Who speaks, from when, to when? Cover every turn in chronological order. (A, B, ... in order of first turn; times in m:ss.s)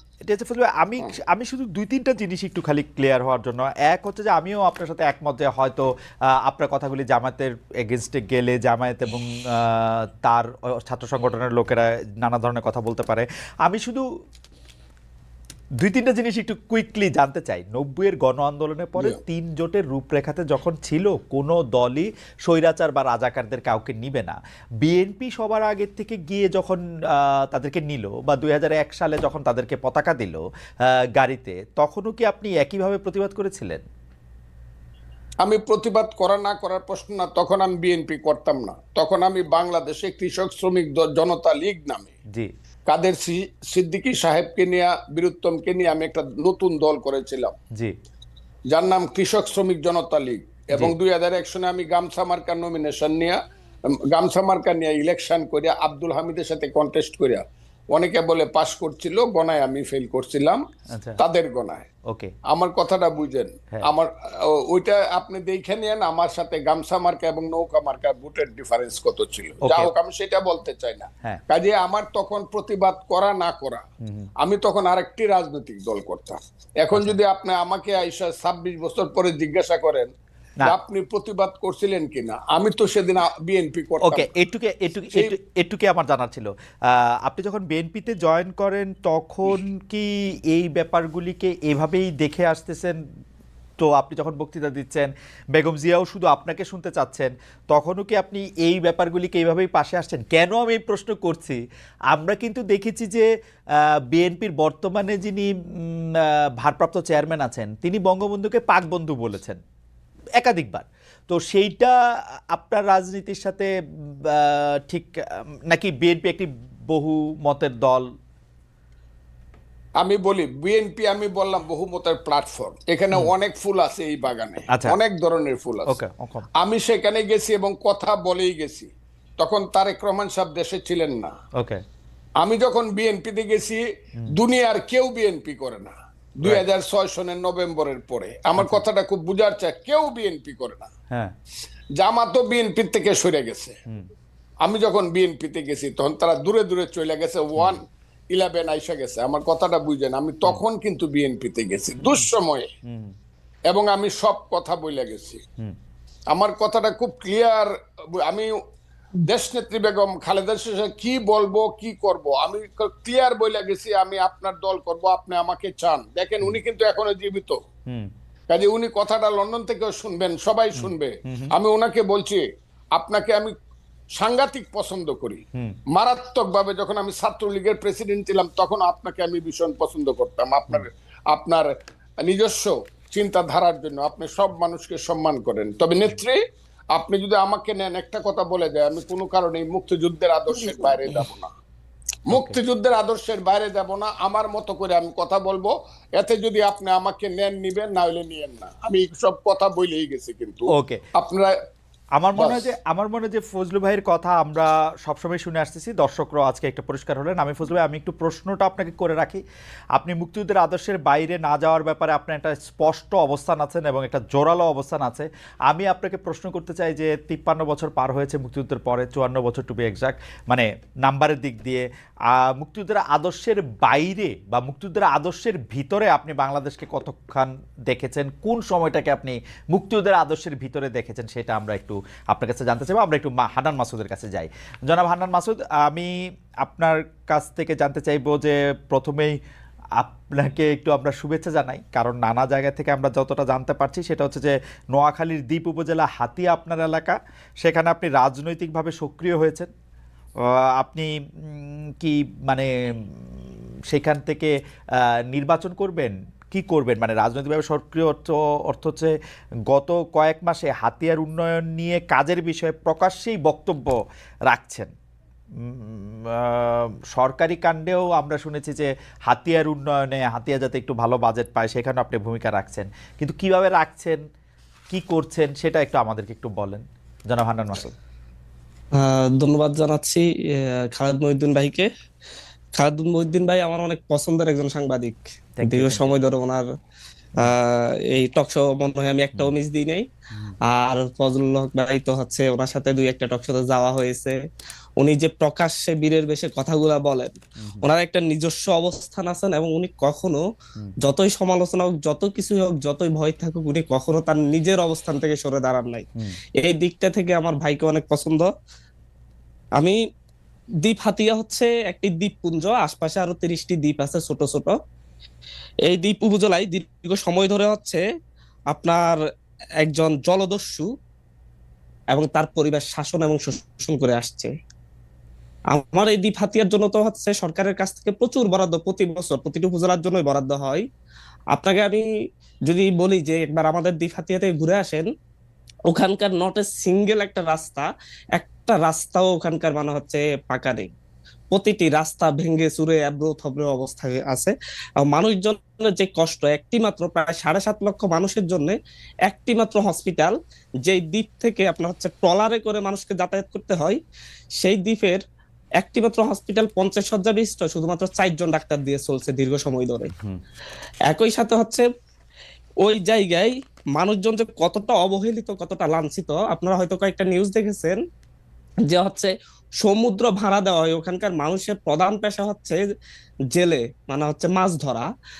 0:00.2-0:14.1 A
0:15.8-0:33.8 A
0:35.4-0:42.1 B
0:42.9-0:47.5 B
0:48.7-0:53.4 B
0:54.1-1:00.6 B
1:00.9-1:01.2 A
1:01.2-1:01.9 B
1:02.1-1:02.3 A
1:02.5-1:13.8 B
1:09.6-1:09.9 A
1:14.0-1:14.3 A
1:14.4-1:20.1 B
1:16.9-1:17.2 A
1:20.6-1:24.3 B
1:24.0-1:33.0 A
1:33.8-1:41.6 A
1:42.1-1:49.6 A
1:50.4-1:52.0 A
1:52.5-1:58.1 A
2:00.0-2:06.0 B
2:04.7-2:05.0 A
2:05.9-2:06.5 A
2:06.6-2:11.3 B
2:11.5-2:11.8 A
2:12.4-2:13.8 B
2:14.3-2:20.9 B
2:18.6-2:18.8 A
2:22.0-2:23.8 B
2:24.6-2:32.7 B
2:32.8-2:33.2 A
2:33.7-2:35.4 B
2:36.3-2:38.5 B
2:39.2-2:47.6 B
2:48.5-2:53.5 B
2:50.7-2:51.5 A
2:54.2-3:06.4 B
3:06.9-3:11.5 B
3:12.3-3:21.6 B
3:12.3-3:12.6 A
3:20.7-3:21.0 A
3:22.2-3:29.4 A
3:22.4-3:22.6 B
3:30.0-3:59.4 A
4:00.0-4:09.7 A
4:10.4-4:13.3 A
4:13.9-4:19.1 A
4:19.7-4:24.0 A
4:24.5-4:24.9 A
4:25.6-4:34.2 A
4:34.9-4:38.0 A
4:39.0-4:41.9 C
4:42.8-4:46.6 C
4:45.6-4:46.1 A
4:47.4-4:50.1 C
4:50.7-4:54.4 C
4:55.0-5:00.4 C
4:57.6-4:57.9 A
5:01.0-5:06.1 C
5:06.6-5:08.5 C
5:10.8-5:14.8 C
5:15.9-5:18.0 C
5:18.7-5:19.2 C
5:19.8-5:20.9 C
5:22.1-5:24.5 C
5:25.7-5:30.9 C
5:31.5-5:32.0 C
5:32.7-5:35.1 C
5:35.9-5:40.9 C
5:41.5-5:44.5 C
5:45.0-5:54.0 C
5:54.6-5:55.2 C
5:55.8-6:00.1 C
6:01.1-6:01.9 C
6:02.8-6:08.0 C
6:08.9-6:12.8 C
6:13.5-6:15.1 C